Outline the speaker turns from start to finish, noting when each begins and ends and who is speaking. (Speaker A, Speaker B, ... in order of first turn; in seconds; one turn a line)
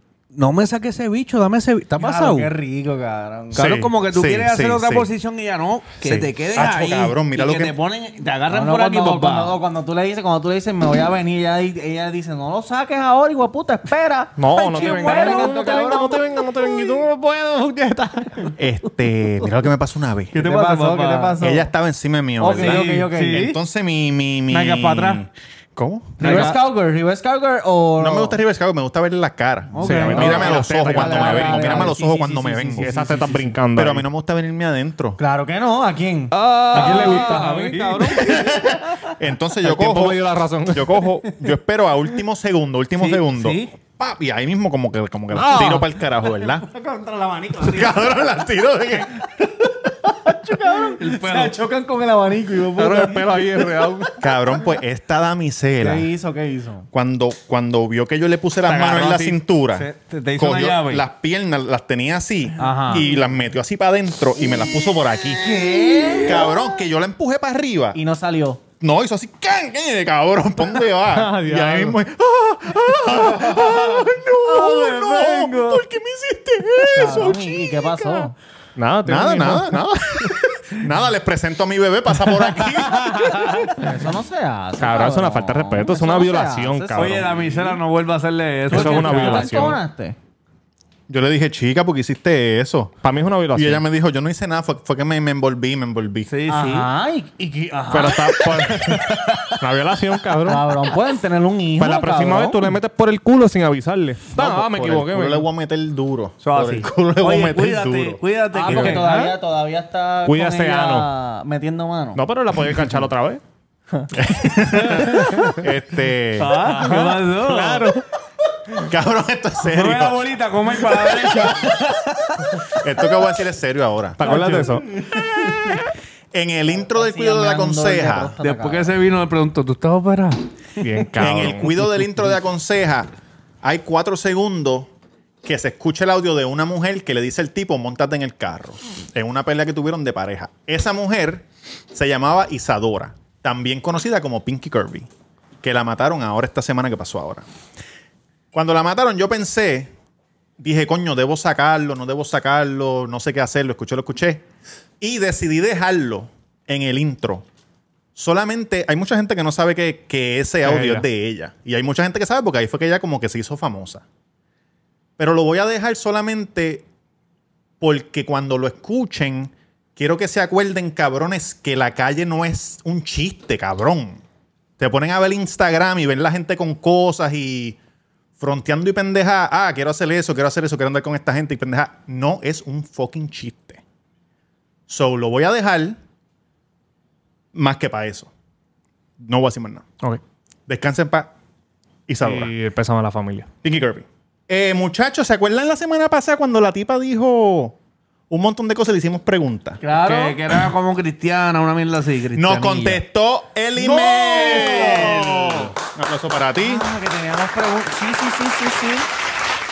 Speaker A: 0.3-2.5
Speaker B: 2.0-3.7
Speaker A: 3.5-9.6
Speaker C: 3.5-5.1
Speaker C: 6.0-7.8
Speaker B: 8.5-16.9
Speaker D: 14.4-18.5
Speaker A: 14.6-15.7
Speaker C: 18.6-20.4
Speaker A: 20.3-21.4
Speaker B: 20.4-21.7
Speaker C: 21.4-26.5
Speaker A: 22.4-23.6
Speaker B: 22.4-23.5
Speaker A: 24.5-25.2
Speaker A: 26.2-26.6
Speaker B: 26.2-28.4
Speaker C: 28.0-32.9
Speaker B: 29.7-33.5
Speaker D: 29.8-32.0
Speaker A: 29.8-30.3
Speaker D: 32.8-34.0
Speaker C: 33.7-35.2
Speaker B: 35.2-38.5
Speaker D: 36.3-38.3
Speaker A: 36.7-38.8
Speaker C: 38.3-46.6
Speaker D: 39.6-41.1
Speaker A: 43.0-43.7
Speaker D: 45.3-45.9
Speaker B: 45.5-48.2
Speaker C: 47.6-49.2
Speaker B: 49.4-54.6
Speaker A: 50.9-51.5
Speaker D: 52.8-54.1
Speaker C: 54.2-56.1
Speaker B: 55.8-56.9
Speaker C: 56.9-65.5
Speaker D: 58.6-59.4
Speaker A: 59.7-61.0
Speaker A: 62.6-63.1
Speaker B: 65.4-66.5
Speaker A: 65.6-66.3
Speaker C: 66.2-68.0
Speaker B: 67.9-68.6
Speaker C: 68.8-78.3
Speaker D: 71.1-72.0
Speaker A: 74.5-75.8
Speaker B: 76.9-78.3
Speaker D: 78.8-79.8
Speaker C: 79.0-83.2
Speaker A: 82.7-83.6
Speaker B: 83.8-87.3
Speaker D: 84.8-87.3
Speaker A: 86.9-89.8
Speaker D: 88.7-89.8
Speaker B: 88.7-90.2
Speaker C: 91.1-92.9
Speaker D: 93.0-93.8
Speaker C: 93.5-96.3
Speaker A: 96.3-96.9
Speaker B: 96.5-99.0
Speaker D: 97.9-100.7
Speaker B: 100.4-102.8
Speaker D: 101.8-105.5
Speaker C: 104.3-108.2
Speaker A: 106.4-109.4
Speaker B: 108.5-112.2
Speaker D: 108.7-109.0
Speaker D: 110.2-111.1
Speaker D: 112.1-113.4
Speaker C: 114.1-116.5
Speaker A: 114.8-115.6
Speaker A: 116.3-118.0
Speaker D: 116.6-118.0
Speaker C: 118.8-120.4
Speaker A: 119.6-122.6
Speaker C: 122.7-124.2
Speaker D: 124.2-124.9
Speaker A: 124.2-124.8
Speaker C: 125.1-125.8
Speaker C: 126.3-128.3
Speaker B: 126.7-129.0
Speaker A: 128.4-130.8
Speaker D: 130.8-131.9
Speaker C: 131.2-133.1
Speaker C: 133.6-134.9
Speaker C: 135.4-145.1
Speaker C: 145.6-147.4
Speaker C: 148.5-149.9
Speaker C: 150.6-154.4
Speaker C: 155.0-157.4
Speaker C: 158.2-164.0
Speaker D: 160.6-161.0
Speaker C: 165.2-166.8
Speaker C: 167.8-174.2
Speaker C: 174.8-177.8
Speaker C: 178.4-183.8
Speaker C: 184.9-186.0
Speaker C: 187.5-188.3
Speaker C: 189.2-189.8
Speaker C: 190.7-191.3
Speaker C: 192.1-192.5
Speaker D: 192.2-193.5
Speaker C: 193.6-197.7
Speaker C: 198.3-199.8
Speaker B: 199.8-200.4
Speaker A: 199.9-203.0
Speaker C: 202.3-206.8
Speaker B: 203.8-205.3
Speaker A: 204.2-205.4
Speaker B: 206.6-209.1